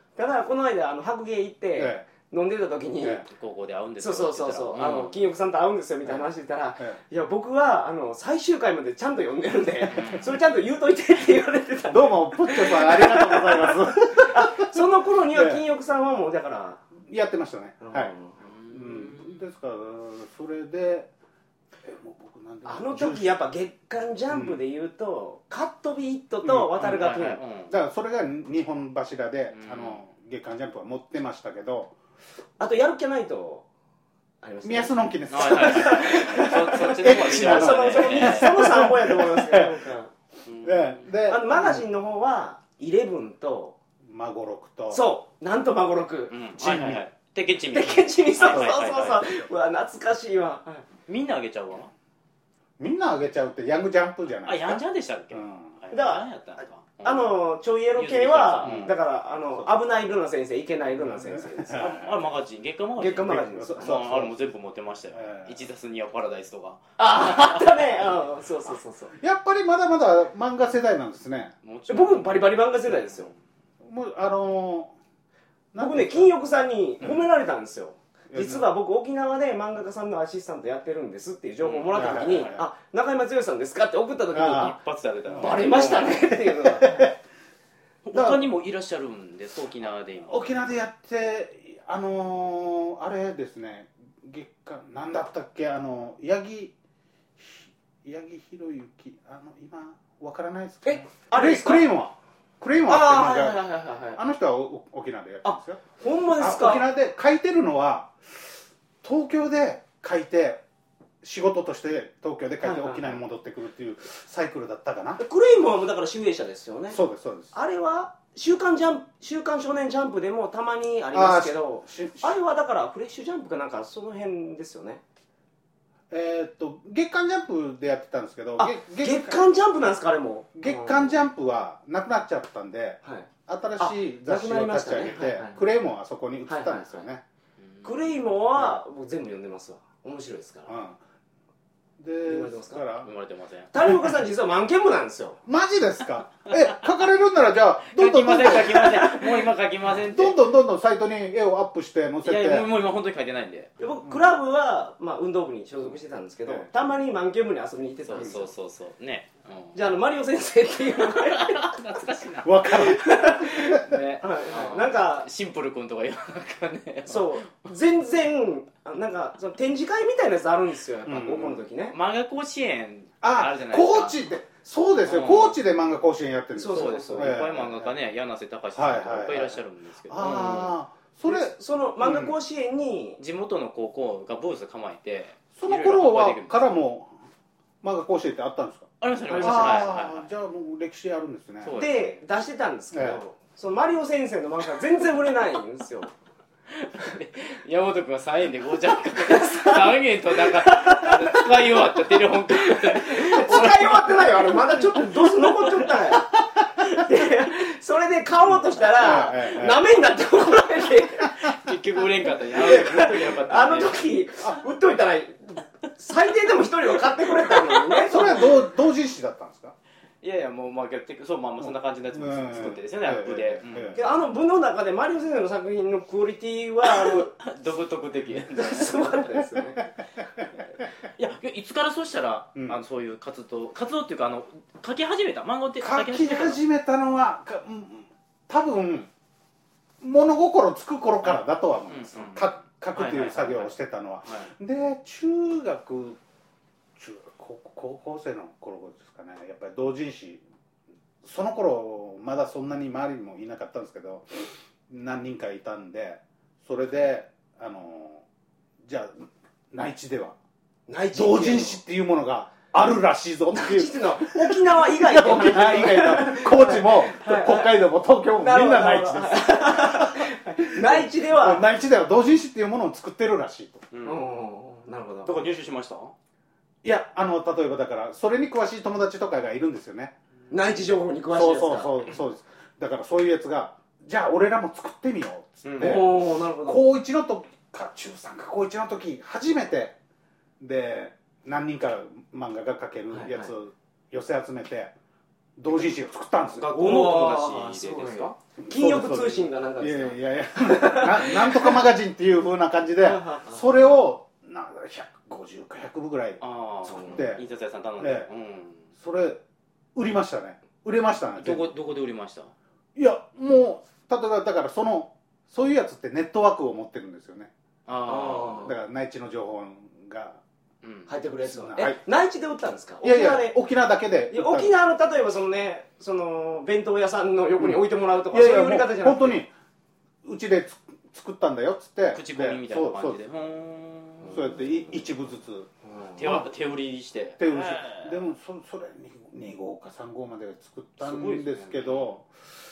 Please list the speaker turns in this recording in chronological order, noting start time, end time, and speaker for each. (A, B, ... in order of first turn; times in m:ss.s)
0:00.2-0:03.2 A
0:01.8-0:02.0 B
0:03.3-0:05.3 C
0:04.0-0:16.8 A
0:09.9-0:10.4 C
0:11.9-0:15.6 B
0:17.0-0:18.1 B
0:17.8-0:18.3 A
0:18.4-0:19.4 C
0:18.7-0:21.1 B
0:21.8-0:23.3 B
0:22.6-0:27.4 A
0:24.3-0:24.6 B
0:26.8-0:27.7 C
0:27.7-0:31.9 B
0:29.5-0:30.0 C
0:32.6-0:33.6 A
0:34.4-0:40.1 A
0:34.6-0:39.8 B
0:35.3-0:38.8 C
0:40.4-0:41.0 C
0:40.6-0:41.8 B
0:41.2-0:43.7 A
0:44.0-0:45.0 B
0:44.9-0:46.4 A
0:46.3-0:49.4 C
0:46.6-0:47.0 B
0:47.7-0:50.9 A
0:51.1-0:51.9 C
0:52.8-0:54.8 B
0:54.4-0:57.3 C
0:55.3-0:55.7 B
0:55.9-0:56.2 A
0:57.0-1:01.9 A
0:57.9-0:58.9 C
0:58.6-0:58.9 B
1:01.0-1:02.1 B
1:01.7-1:07.7 C
1:03.0-1:04.0 A
1:03.3-1:04.4 B
1:05.1-1:05.6 B
1:07.0-1:09.1 A
1:09.2-1:11.5 B
1:11.6-1:13.3 C
1:11.9-1:13.3 A
1:13.8-1:14.9 B
1:15.7-1:16.3 B
1:15.8-1:24.8 A
1:18.3-1:18.7 B
1:21.6-1:22.5 C
1:21.9-1:22.6 B
1:24.3-1:24.7 B
1:24.6-1:26.3 C
1:25.3-1:25.6 B
1:25.3-1:27.1 A
1:26.8-1:27.1 B
1:28.0-1:30.4 C
1:28.1-1:28.4 B
1:30.2-1:36.7 B
1:37.4-1:43.6 B
1:40.8-1:41.9 A
1:42.9-1:44.2 A
1:44.1-1:45.8 B
1:45.4-1:46.8 A
1:46.4-1:50.6 B
1:51.2-1:55.2 B
1:52.6-1:53.2 A
1:55.2-1:57.0 A
1:56.9-1:57.5 B
1:57.5-2:05.0 A
2:01.1-2:02.3 B
2:06.1-2:09.5 B
2:08.6-2:11.2 A
2:10.6-2:17.2 B
2:13.0-2:15.6 A
2:16.5-2:17.0 A
2:17.6-2:18.1 C
2:17.8-2:20.7 A
2:20.7-2:21.0 B
2:22.0-2:23.1 B
2:22.3-2:22.8 A
2:23.0-2:23.7 C
2:23.7-2:25.4 A
2:25.4-2:29.1 B
2:27.9-2:30.4 C
2:30.0-2:32.7 B
2:32.2-2:33.7 C
2:33.8-2:38.5 A
2:38.1-2:39.8 C
2:39.7-2:41.7 A
2:41.1-2:43.0 C
2:42.4-2:43.8 B
2:42.7-2:45.3 A
2:43.7-2:47.4 C
2:47.0-2:51.9 A
2:51.0-2:51.6 B
2:51.9-2:54.2 C
2:53.2-2:57.9 B
2:55.0-2:55.6 C
2:56.5-2:57.4 A
2:56.7-3:00.7 C
2:58.7-3:02.3 B
3:00.2-3:00.7 A
3:01.2-3:03.2 A
3:03.2-3:06.6 C
3:05.6-3:07.1 B
3:07.8-3:11.8 B
3:09.0-3:10.3 C
3:09.3-3:09.9 A
3:11.6-3:12.2 C
3:11.8-3:16.1 A
3:12.9-3:13.2 B
3:16.7-3:24.5 C
3:19.2-3:31.4 A
3:28.9-3:29.8 B
3:31.4-3:34.0 C
3:32.5-3:38.6 A
3:32.6-3:33.0 B
3:38.0-3:39.7 B
3:40.2-3:44.0 C
3:41.6-3:44.0 B
3:43.9-3:47.3 A
3:46.9-3:49.2 C
3:48.5-3:49.9 A
3:49.6-3:49.8 B
3:51.1-3:56.6 C
3:55.8-3:59.1 B
4:00.0-4:06.2 B
4:01.9-4:03.7 C
4:07.0-4:10.4 B
4:11.2-4:18.2 B
4:18.8-4:20.3 B
4:20.9-4:21.8 A
4:21.1-4:33.8 B
4:23.5-4:27.7 A
4:28.4-4:31.6 A
4:33.9-4:34.2 C
4:34.0-4:35.4 A
4:35.2-4:36.1 C
4:36.8-4:40.1 B
4:40.5-4:42.1 A
4:41.3-4:49.9 B
4:45.6-4:46.0 C
4:45.8-4:46.8 A
4:50.6-4:54.9 B
4:53.1-4:53.5 A
4:55.6-4:56.7 B
4:56.4-4:58.4 C
4:56.7-5:01.8 A
4:58.6-5:06.4 B
5:03.0-5:03.7 A
5:06.4-5:08.8 C
5:06.8-5:07.4 A
5:07.1-5:07.4 B
5:08.0-5:08.3 B
5:09.0-5:09.4 B
5:09.9-5:11.7 B
5:11.4-5:12.5 C
5:13.0-5:17.5 B
5:17.8-5:18.7 C
5:18.0-5:18.7 A
5:18.6-5:20.4 B
5:20.8-5:21.1 C
5:21.1-5:23.5 A
5:21.4-5:22.0 B
5:23.0-5:24.7 B
5:24.3-5:29.4 A
5:27.6-5:29.5 B
5:30.2-5:33.2 B
5:32.1-5:34.5 C
5:34.2-5:35.0 A
5:34.3-5:35.7 B
5:35.8-5:36.4 A
5:36.2-5:38.2 C
5:37.4-5:42.3 B
5:41.0-5:42.1 C